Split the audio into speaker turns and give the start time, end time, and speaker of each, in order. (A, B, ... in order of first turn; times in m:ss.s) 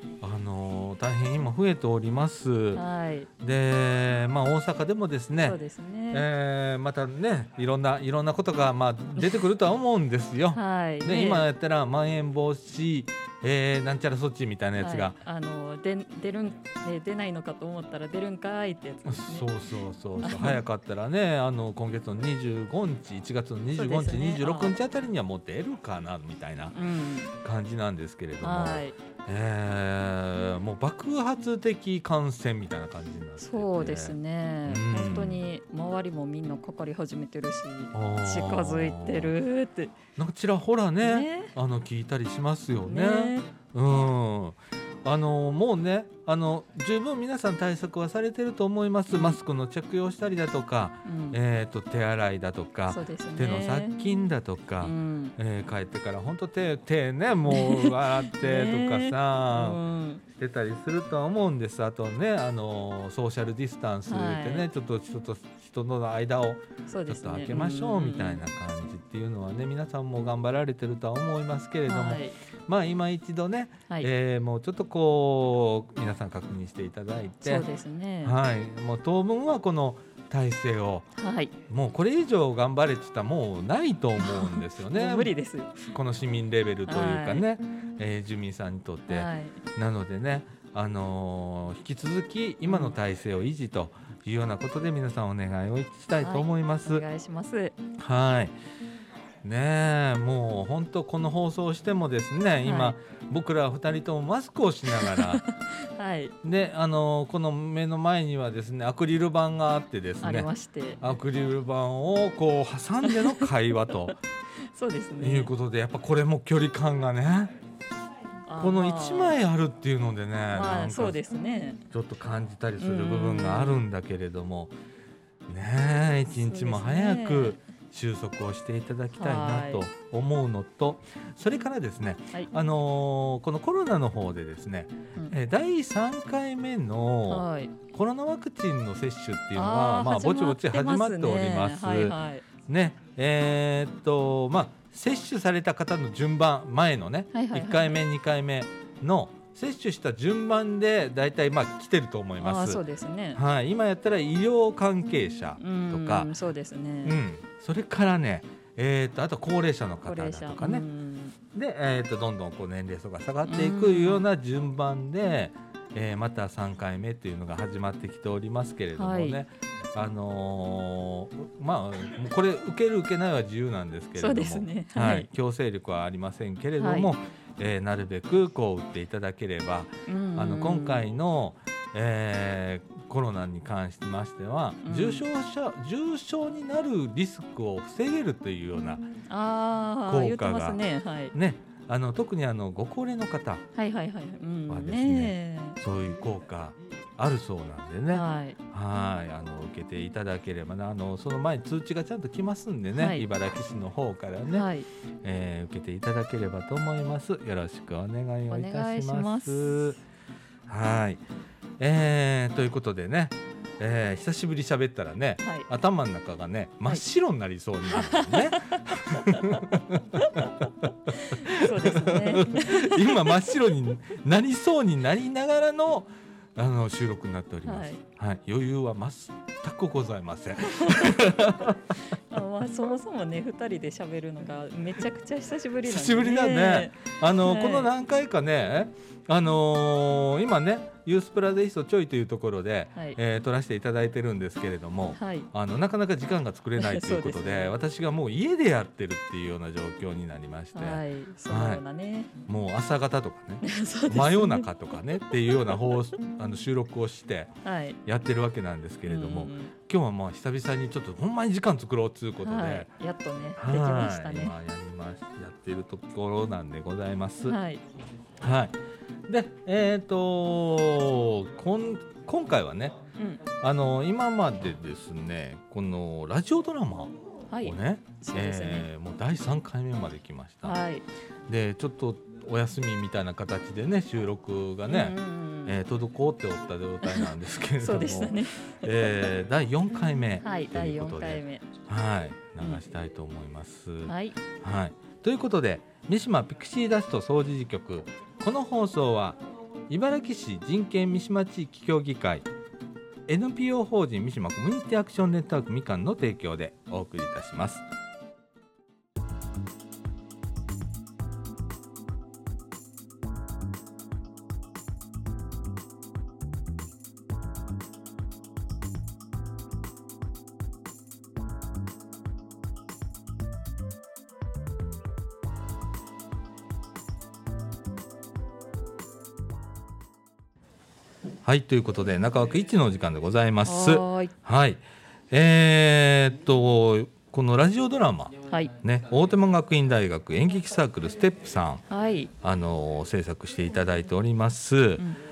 0:00.2-0:02.8 A
0:02.8-0:03.3 B
0:03.4-0:05.6 A
0:05.4-0:06.3 B
0:06.1-0:15.2 A
0:10.5-0:11.4 B
0:14.8-0:19.5 B
0:19.0-0:26.8 A
0:20.2-0:20.6 B
0:23.8-0:24.8 B
0:26.7-0:27.3 B
0:27.4-0:35.4 A
0:28.4-0:29.0 B
0:33.4-0:40.0 B
0:37.9-0:39.4 A
0:40.2-0:59.8 A
0:41.0-0:41.5 B
0:42.9-0:43.5 B
0:49.1-0:49.4 B
0:51.0-0:51.4 B
0:52.9-0:54.1 B
0:54.8-0:55.4 B
0:57.5-1:00.2 B
1:00.3-1:17.7 A
1:04.1-1:04.7 B
1:06.9-1:08.5 B
1:11.9-1:12.4 B
1:17.4-1:18.4 B
1:18.2-1:21.1 A
1:21.2-1:21.5 B
1:21.7-1:25.3 A
1:24.2-1:25.9 B
1:25.8-1:37.0 A
1:26.9-1:27.4 B
1:29.1-1:29.6 B
1:32.7-1:32.9 B
1:36.2-1:37.8 B
1:38.0-1:38.6 A
1:39.4-1:45.4 A
1:42.6-1:43.0 B
1:44.9-1:46.4 B
1:46.4-1:54.2 A
1:50.2-1:51.0 B
1:53.0-1:53.5 B
1:54.7-1:55.5 B
1:55.2-1:57.5 A
1:58.5-1:59.4 B
1:58.6-2:01.2 A
2:00.5-2:01.8 B
2:01.9-2:04.7 A
2:02.8-2:03.8 B
2:05.5-2:32.8 A
2:06.3-2:07.6 B
2:09.2-2:09.8 B
2:17.3-2:17.7 B
2:19.6-2:22.5 B
2:27.3-2:28.0 B
2:32.4-2:33.4 B
2:33.3-2:36.3 A
2:35.6-2:37.2 B
2:37.0-2:40.8 A
2:40.1-2:41.4 B
2:41.5-3:09.1 A
2:43.5-2:44.3 B
2:49.0-2:49.4 B
2:54.2-2:55.3 B
2:56.8-2:57.1 B
3:00.1-3:01.1 B
3:04.8-3:05.3 B
3:09.3-3:11.3 B
3:10.0-3:13.6 A
3:13.8-3:15.8 B
3:14.7-3:24.7 A
3:18.1-3:18.6 B
3:22.9-3:23.2 B
3:24.5-3:24.9 B
3:25.2-3:30.0 A
3:28.5-3:29.9 B
3:30.7-3:31.2 A
3:31.8-3:40.3 A
3:35.4-3:35.7 B
3:37.9-3:39.4 B
3:41.1-3:43.4 B
3:41.3-3:51.8 A
3:47.7-3:48.0 B
3:50.8-3:51.3 B
3:52.3-3:57.9 B
3:55.8-4:11.8 A
4:05.2-4:05.5 B
4:06.8-4:07.8 B
4:10.7-4:12.4 B
4:12.4-4:22.9 A
4:13.6-4:14.7 B
4:17.6-4:18.0 B
4:19.1-4:19.7 B
4:22.4-4:24.6 B
4:23.6-4:27.6 A
4:27.5-4:27.8 B
4:28.4-4:28.8 A
4:29.3-4:33.0 A
4:33.2-4:33.4 B
4:33.6-4:40.8 A
4:37.5-4:38.9 B
4:40.6-4:41.0 B
4:41.5-5:02.5 A
4:44.9-4:45.8 B
4:47.0-4:48.9 B
4:50.4-4:51.6 B
4:54.1-4:54.4 B
5:03.3-5:07.8 A
5:31.4-5:41.8 A
5:33.6-5:34.3 B
5:41.9-5:42.3 B
5:42.4-5:45.1 A